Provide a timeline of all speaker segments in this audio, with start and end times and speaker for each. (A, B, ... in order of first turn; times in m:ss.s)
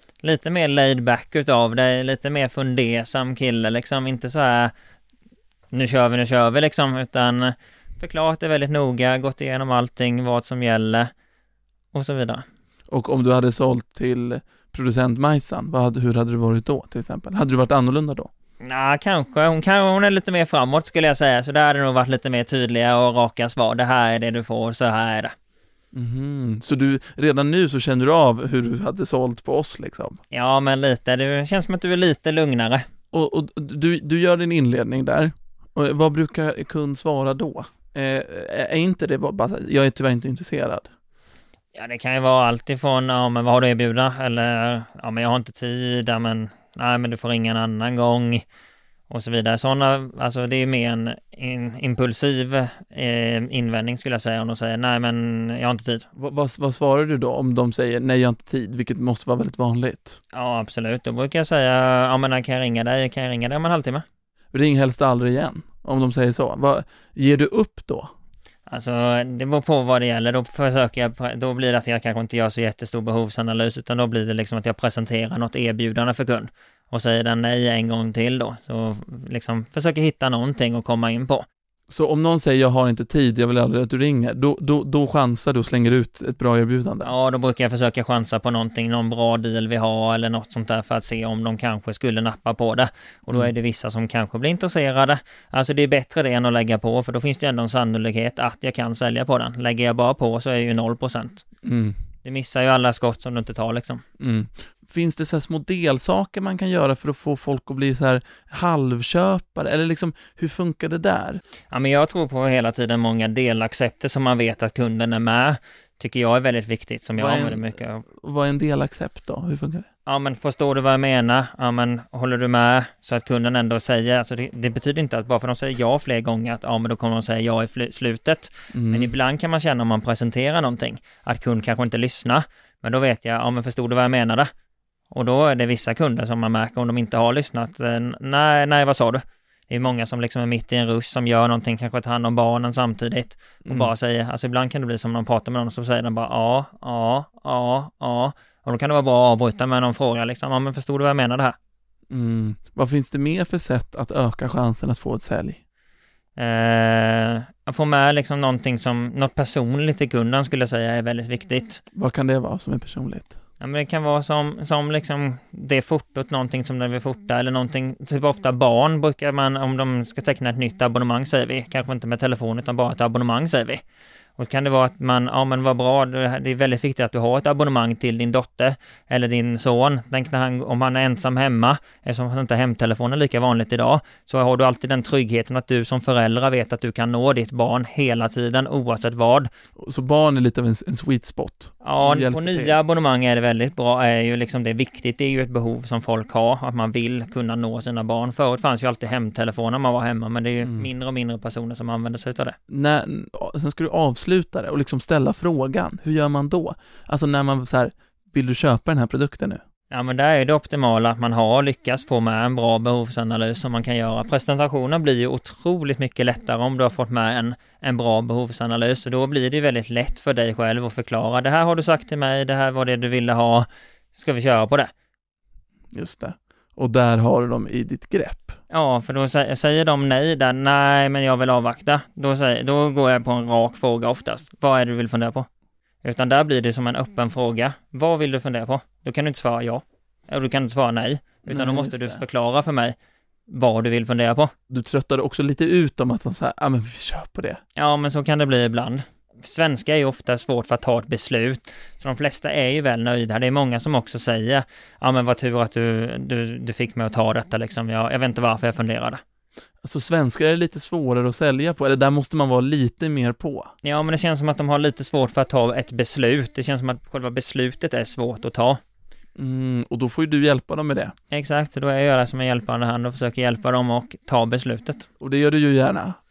0:00.2-0:04.7 A
0:05.7-0:11.1 A
0:11.9-0:12.4 A
0:12.9-0:18.3 B
0:18.6-0:25.3 A
0:25.9-0:30.2 B
0:30.3-0:32.9 A
0:33.1-0:40.9 B
0:41.8-0:48.4 A
0:49.1-0:56.1 A
0:56.2-1:00.2 B
1:00.3-1:04.0 A
1:04.5-1:08.1 B
1:08.7-1:21.4 A
1:21.9-1:27.1 B
1:27.0-1:41.4 A
1:41.6-1:42.0 B
1:42.2-1:44.0 A
1:44.2-1:51.4 B
1:51.7-1:58.0 A
1:57.2-1:59.9 B
2:00.1-2:14.5 A
2:08.7-2:09.1 B
2:15.1-2:31.6 A
2:23.6-2:23.9 B
2:32.1-2:35.6 B
2:36.4-2:41.8 A
2:41.9-2:43.4 B
2:43.6-2:53.8 A
2:54.4-3:09.5 A
3:09.8-3:12.8 B
3:11.8-3:22.6 A
3:20.6-3:20.9 B
3:22.7-3:29.6 B
3:29.9-3:44.9 A
3:45.9-3:48.6 B
3:48.7-3:55.5 A
3:56.0-4:03.0 A
4:01.5-4:02.2 B
4:03.5-4:04.5 A
4:04.7-4:07.6 B
4:07.8-4:19.2 A
4:19.8-4:23.7 B
4:23.8-4:28.8 A
4:29.4-4:31.2 B
4:31.3-4:35.1 A
4:35.2-4:36.2 B